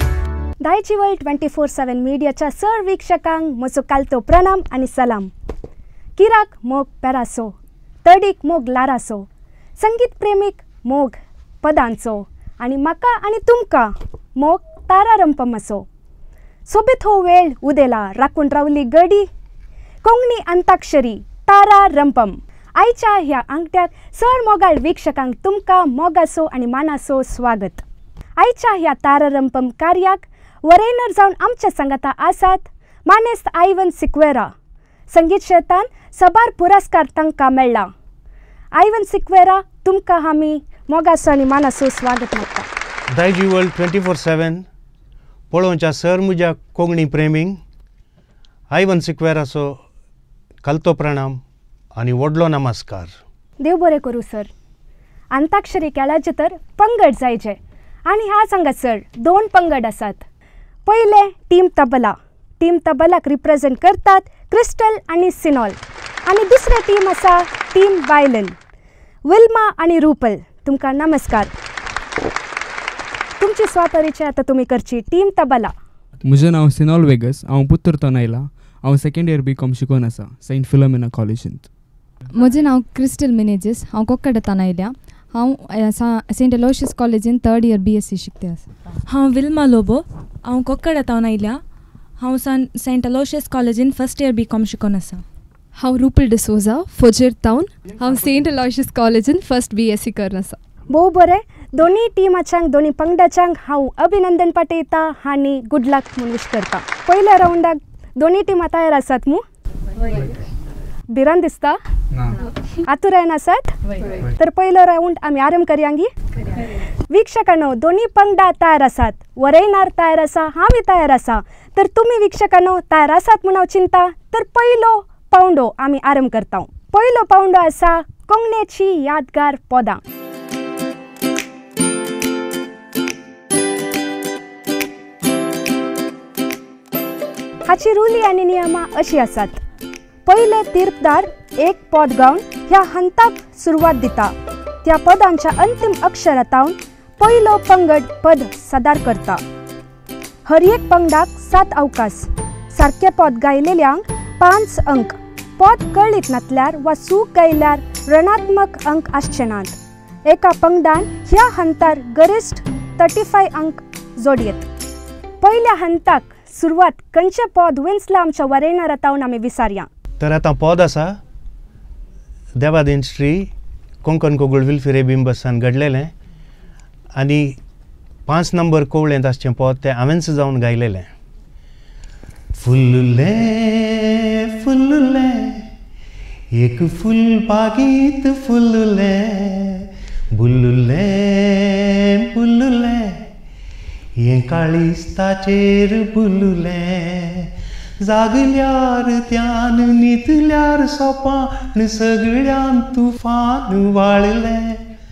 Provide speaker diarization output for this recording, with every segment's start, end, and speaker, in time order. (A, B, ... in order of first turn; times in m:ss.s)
0:00.6-0:05.3 A
0:06.2-0:07.5 A
0:08.0-0:09.3 A
0:09.8-0:15.8 A
0:16.7-0:19.3 A
0:20.0-0:27.8 A
0:28.4-0:34.5 A
0:35.1-0:37.9 A
0:38.7-0:42.7 A
0:43.1-0:44.6 B
0:45.5-0:47.6 B
0:48.7-0:49.8 B
0:50.6-0:51.4 B
0:52.0-0:53.1 B
0:53.6-0:54.5 A
0:55.3-1:00.2 A
1:00.8-1:08.6 A
1:09.2-1:11.5 A
1:13.4-1:15.7 A
1:16.2-1:21.7 C
1:22.3-1:28.7 D
1:29.1-1:31.6 E
1:32.2-1:35.2 E
1:35.8-1:40.6 F
1:40.9-1:49.4 A
1:51.1-1:51.8 A
1:52.8-1:56.1 A
1:57.1-2:10.0 A
2:17.6-2:19.6 A
2:20.2-2:24.3 A
2:24.8-2:29.4 A
2:30.5-2:44.7 A
2:45.4-2:49.9 A
2:50.2-2:51.2 B
2:52.6-2:53.5 B
2:54.0-2:56.1 B
2:57.2-2:57.6 B
2:58.3-3:01.1 B
3:02.6-3:05.7 B
3:06.5-3:13.2 B
3:14.2-3:24.8 B